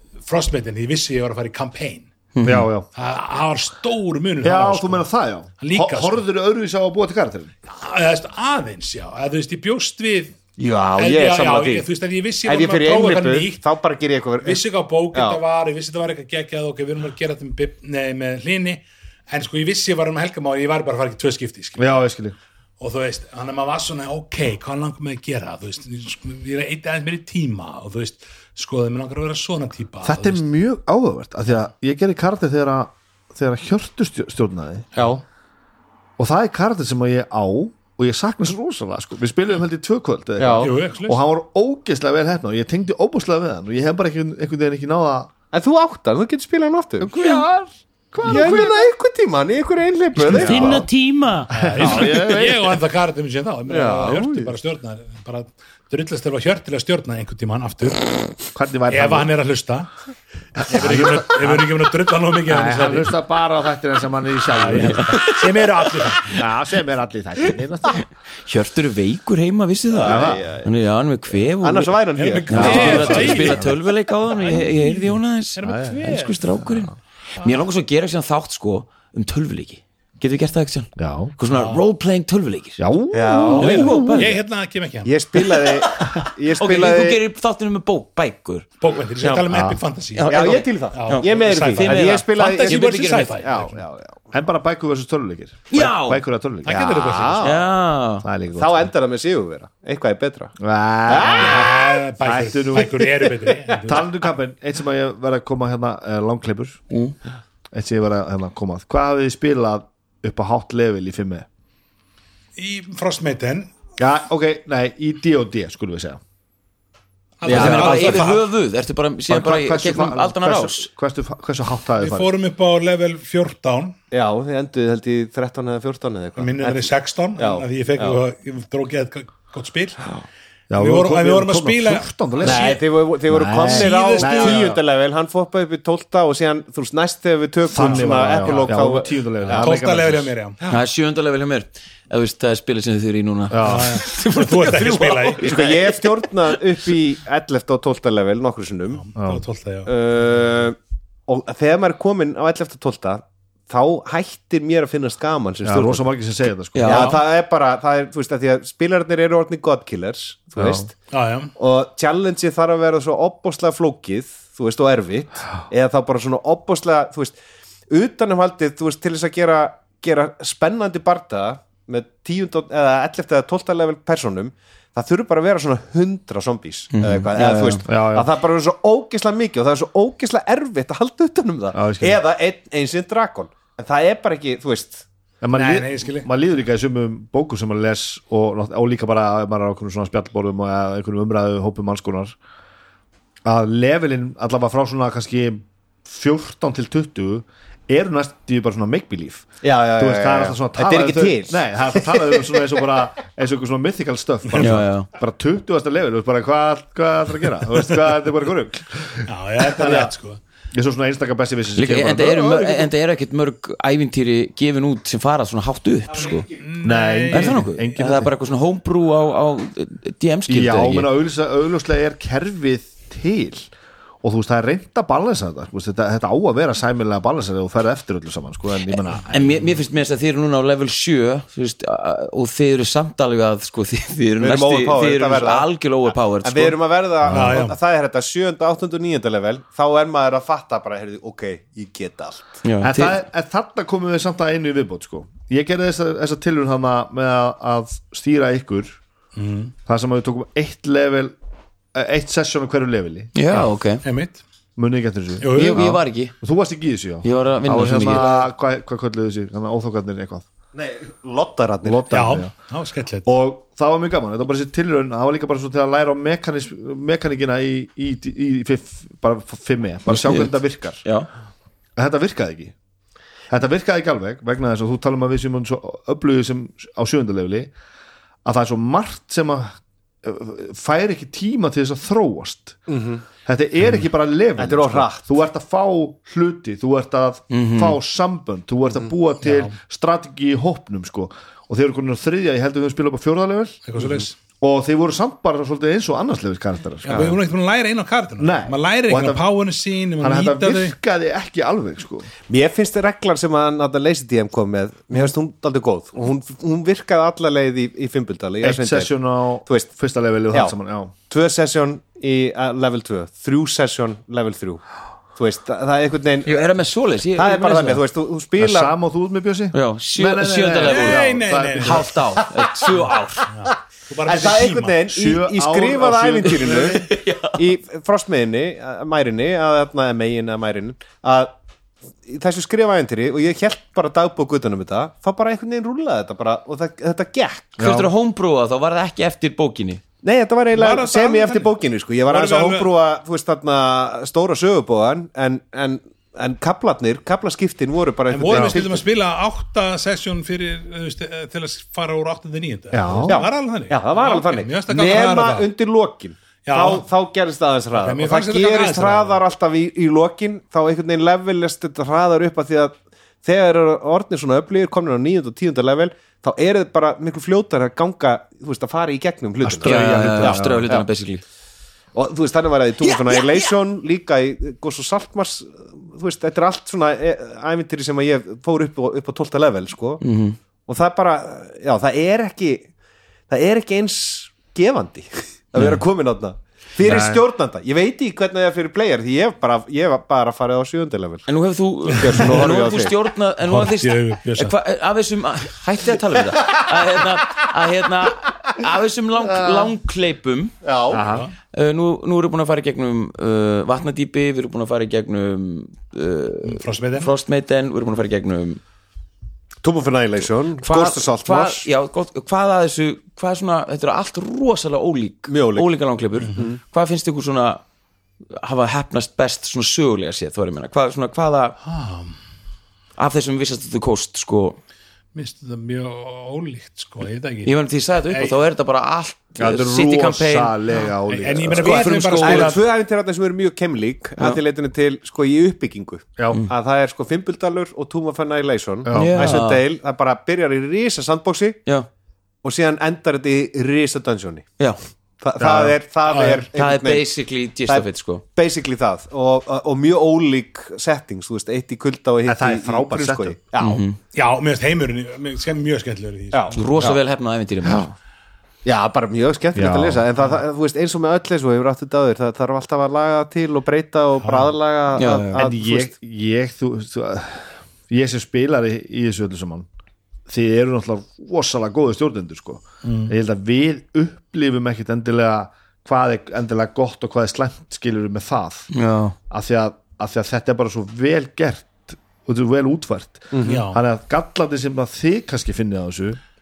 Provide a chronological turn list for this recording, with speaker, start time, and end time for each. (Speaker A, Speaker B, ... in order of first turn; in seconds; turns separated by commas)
Speaker A: 0.3-2.1, Speaker B: 2.4-2.7, Speaker C: 2.4-2.9, Speaker A: 3.0-5.1, Speaker C: 4.4-7.5, Speaker A: 5.6-6.2, Speaker A: 7.7-10.4, Speaker D: 10.6-11.9, Speaker A: 11.0-13.6, Speaker D: 12.4-15.4, Speaker A: 14.4-21.9, Speaker C: 21.8-22.4, Speaker A: 22.8-30.4, Speaker C: 30.0-34.9, Speaker D: 35.0-35.2, Speaker C: 36.2-45.3, Speaker D: 40.4-40.7, Speaker A: 40.6-41.2, Speaker D: 45.5-47.1, Speaker C: 47.0-48.9, Speaker D: 48.3-50.9, Speaker A: 50.2-50.8, Speaker C: 50.3-50.9, Speaker B: 50.4-51.5, Speaker C: 51.5-52.8, Speaker A: 51.5-58.1, Speaker D: 51.8-52.1, Speaker D: 53.7-54.5, Speaker C: 58.5-59.3, Speaker A: 58.9-59.9, Speaker A: 60.6-63.1, Speaker C: 60.6-61.6, Speaker C: 62.5-65.2, Speaker A: 64.5-66.4, Speaker B: 65.0-65.4, Speaker C: 66.3-68.0, Speaker B: 67.9-82.8, Speaker D: 69.9-70.7, Speaker C: 70.0-70.5, Speaker D: 71.6-73.5, Speaker A: 72.2-73.8, Speaker C: 72.5-73.7, Speaker A: 74.4-76.4, Speaker C: 75.6-76.1, Speaker C: 76.6-76.9, Speaker C: 81.0-81.3, Speaker A: 81.5-81.8, Speaker C: 82.8-84.2, Speaker D: 83.1-84.2, Speaker B: 83.3-84.3, Speaker A: 83.5-85.1, Speaker D: 85.0-87.2, Speaker B: 85.4-88.7, Speaker A: 88.8-93.8, Speaker D: 89.2-89.5, Speaker C: 89.5-89.8, Speaker B: 90.2-93.2, Speaker D: 90.3-94.2, Speaker C: 94.3-97.3, Speaker B: 95.7-96.2, Speaker A: 96.7-97.5, Speaker D: 96.9-97.7, Speaker B: 97.4-98.3, Speaker C: 98.2-98.9, Speaker D: 98.5-100.6, Speaker C: 100.6-103.1, Speaker D: 101.1-101.8, Speaker A: 101.2-104.1, Speaker D: 102.8-103.8, Speaker C: 103.8-106.8, Speaker C: 107.7-111.5, Speaker A: 112.6-113.7, Speaker C: 114.0-116.2, Speaker A: 117.4-118.4, Speaker D: 117.5-118.4, Speaker B: 117.5-120.9, Speaker C: 119.3-122.3, Speaker A: 122.0-124.0, Speaker D: 124.1-128.2, Speaker A: 126.4-130.0, Speaker C: 130.7-132.8, Speaker A: 130.7-132.8, Speaker D: 132.4-139.7, Speaker C: 133.3-134.8, Speaker A: 133.6-134.7, Speaker C: 137.6-140.3, Speaker A: 137.8-138.8, Speaker A: 139.5-140.6, Speaker B: 140.7-146.6, Speaker C: 143.5-144.0, Speaker A: 143.6-145.6, Speaker D: 145.4-149.1, Speaker A: 148.9-149.9, Speaker C: 149.2-149.4, Speaker D: 149.9-156.1, Speaker C: 155.6-157.2, Speaker B: 156.7-157.2, Speaker D: 156.8-160.9, Speaker A: 156.9-157.2, Speaker C: 160.6-160.9, Speaker A: 161.1-161.5, Speaker D: 161.6-167.4, Speaker D: 167.9-185.1, Speaker B: 176.9-177.8, Speaker C: 177.4-178.3, Speaker C: 181.7-182.2, Speaker C: 185.4-192.4, Speaker A: 185.5-186.3, Speaker C: 193.4-210.1, Speaker D: 199.6-202.6, Speaker B: 204.6-205.1, Speaker A: 209.3-210.4, Speaker C: 210.7-212.9, Speaker B: 211.8-216.5, Speaker D: 216.1-216.7, Speaker A: 216.6-217.7, Speaker C: 216.8-218.3, Speaker B: 217.3-221.1, Speaker C: 220.5-223.7, Speaker C: 224.2-229.6, Speaker B: 229.3-236.8, Speaker D: 234.4-242.6, Speaker C: 237.3-237.6, Speaker A: 237.3-237.8, Speaker B: 242.6-243.2, Speaker C: 242.8-249.0, Speaker A: 249.4-249.7, Speaker C: 249.9-251.3, Speaker C: 251.9-253.3, Speaker B: 253.3-254.0, Speaker A: 254.0-254.4, Speaker C: 254.8-260.5, Speaker A: 255.4-256.0, Speaker B: 255.5-256.3, Speaker B: 257.2-258.3, Speaker D: 258.1-258.5, Speaker D: 260.7-262.1, Speaker C: 261.8-262.5, Speaker A: 262.1-263.3, Speaker C: 263.2-271.0, Speaker B: 270.1-271.3, Speaker C: 272.0-272.7, Speaker C: 273.5-277.7, Speaker C: 278.4-282.8, Speaker D: 282.9-283.2, Speaker C: 283.4-293.9, Speaker D: 284.6-285.3, Speaker B: 287.5-288.0, Speaker A: 289.4-289.8, Speaker A: 293.9-294.4, Speaker C: 294.6-297.4, Speaker A: 297.1-300.9, Speaker C: 298.4-299.4, Speaker C: 300.2-302.3, Speaker D: 302.5-309.1, Speaker C: 308.6-311.1, Speaker D: 311.3-314.8, Speaker D: 315.4-316.6, Speaker B: 316.4-318.0, Speaker D: 317.4-318.9, Speaker C: 318.6-322.2, Speaker B: 319.7-323.5, Speaker A: 320.8-322.1, Speaker A: 323.5-325.0, Speaker D: 324.2-331.5, Speaker C: 325.1-327.0, Speaker B: 326.7-327.6, Speaker D: 332.2-337.8, Speaker C: 337.8-338.1, Speaker B: 337.8-340.0, Speaker D: 340.2-349.0, Speaker A: 340.7-342.9, Speaker A: 348.3-355.7, Speaker C: 348.5-348.8, Speaker C: 352.9-353.5, Speaker D: 353.3-371.1, Speaker A: 356.6-357.1, Speaker A: 357.9-359.4, Speaker C: 369.6-370.9, Speaker B: 369.8-371.4, Speaker D: 372.1-380.2, Speaker B: 373.0-373.7, Speaker B: 380.2-380.6, Speaker D: 380.9-382.9, Speaker D: 383.5-391.5, Speaker B: 385.8-386.0, Speaker C: 387.0-387.4, Speaker B: 391.5-400.7, Speaker D: 392.2-393.1, Speaker A: 393.6-394.8, Speaker C: 399.4-399.9, Speaker D: 400.8-401.3, Speaker C: 401.1-401.5, Speaker A: 401.3-401.5, Speaker B: 401.7-408.8, Speaker A: 406.6-407.3, Speaker D: 409.8-411.9, Speaker B: 410.8-417.8, Speaker D: 415.5-415.9, Speaker A: 416.4-416.7, Speaker D: 416.5-416.8, Speaker B: 418.6-421.8, Speaker A: 421.8-422.4, Speaker B: 423.2-424.8, Speaker A: 425.3-427.7, Speaker B: 427.6-430.8, Speaker A: 428.3-428.6, Speaker C: 429.6-432.1, Speaker A: 431.0-432.9, Speaker B: 431.8-432.8, Speaker D: 432.4-441.8, Speaker C: 439.1-439.6, Speaker B: 439.1-439.8, Speaker D: 442.6-444.7, Speaker D: 445.4-447.3, Speaker C: 445.6-446.0, Speaker A: 446.3-446.7, Speaker B: 446.7-448.4, Speaker D: 447.9-454.0, Speaker C: 452.4-453.6, Speaker B: 453.8-454.2, Speaker A: 454.3-456.9, Speaker D: 456.5-457.2, Speaker B: 456.8-458.1, Speaker C: 457.8-458.1, Speaker D: 458.9-466.1, Speaker C: 459.8-460.2, Speaker A: 464.4-464.8, Speaker B: 465.2-465.6, Speaker C: 465.5-469.9, Speaker C: 470.5-478.9, Speaker A: 473.0-473.3, Speaker B: 478.9-479.4, Speaker C: 479.5-486.4, Speaker D: 483.5-483.8, Speaker A: 483.6-484.0